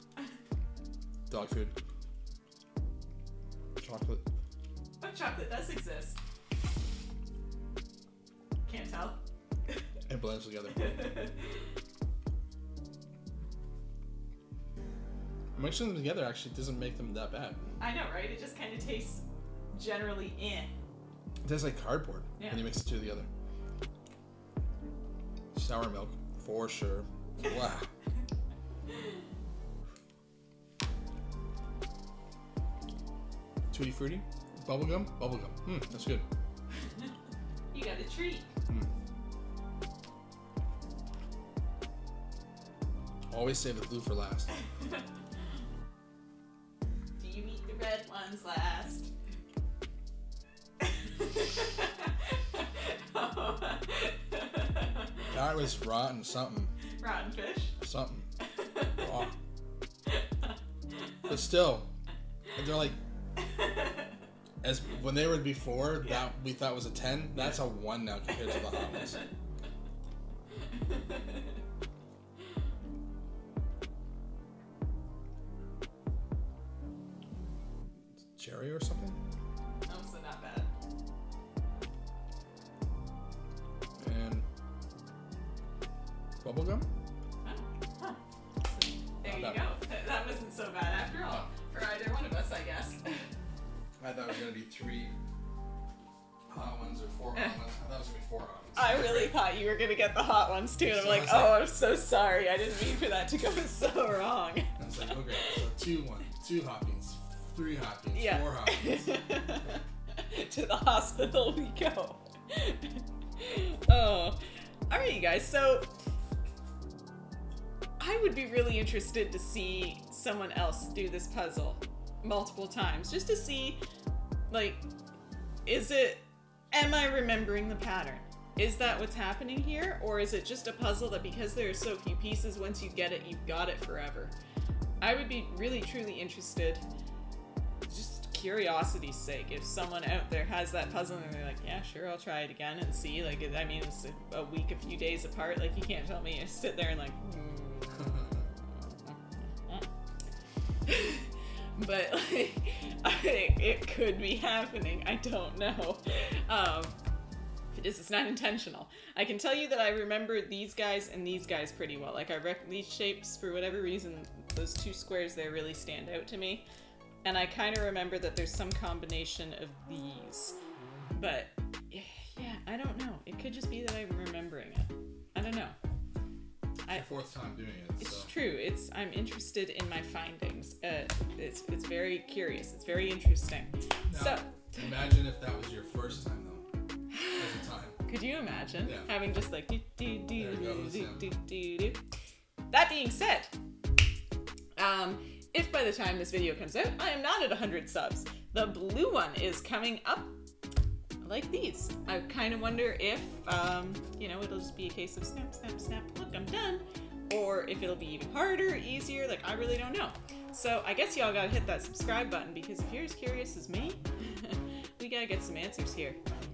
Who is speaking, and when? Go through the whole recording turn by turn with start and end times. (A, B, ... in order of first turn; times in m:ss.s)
0:01.3-0:01.7 A
0:03.8-0:04.2 A
0:05.0-0:06.2 B
0:08.6-0:09.2 B
0:10.1-0:11.1 A
0:10.7-0:11.7 B
0:15.5-0:17.6 A
0:17.8-0:20.7 B
0:21.4-0:23.3 A
0:22.4-0:22.7 B
0:25.5-0:27.9 A
0:33.7-0:36.2 A
0:37.7-0:38.5 B
0:43.3-0:44.5 A
0:47.2-0:49.1 B
0:50.8-0:55.3 B
0:55.3-0:56.7 A
0:57.0-0:57.7 B
0:57.8-0:58.3 A
0:58.5-0:58.9 B
0:58.9-0:59.3 A
1:00.1-1:00.5 B
1:01.2-1:01.9 A
1:02.5-1:03.0 A
1:03.4-1:04.1 B
1:04.6-1:09.2 A
1:08.4-1:09.2 B
1:10.7-1:11.6 B
1:18.3-1:19.2 A
1:19.9-1:20.7 B
1:24.0-1:24.4 A
1:26.4-1:26.9 A
1:27.4-1:33.2 B
1:29.2-1:29.6 A
1:34.0-1:35.1 A
1:36.5-1:39.4 A
1:38.8-1:44.7 B
1:40.8-1:41.7 A
1:44.8-1:49.2 A
1:48.1-1:55.9 B
1:58.0-2:03.8 B
2:04.5-2:04.8 B
2:05.6-2:14.3 B
2:15.0-2:16.8 B
2:17.9-2:29.9 B
2:30.8-2:37.0 B
2:37.7-2:46.6 B
2:47.2-2:50.6 B
2:51.2-2:55.7 B
2:56.9-2:58.3 A
2:58.0-3:04.8 B
3:04.1-3:06.6 A
3:07.1-3:07.4 B
3:07.3-3:08.0 A
3:08.0-3:12.0 B
3:10.3-3:11.3 A
3:12.7-3:13.5 B
3:14.8-3:20.3 B
3:21.2-3:36.2 B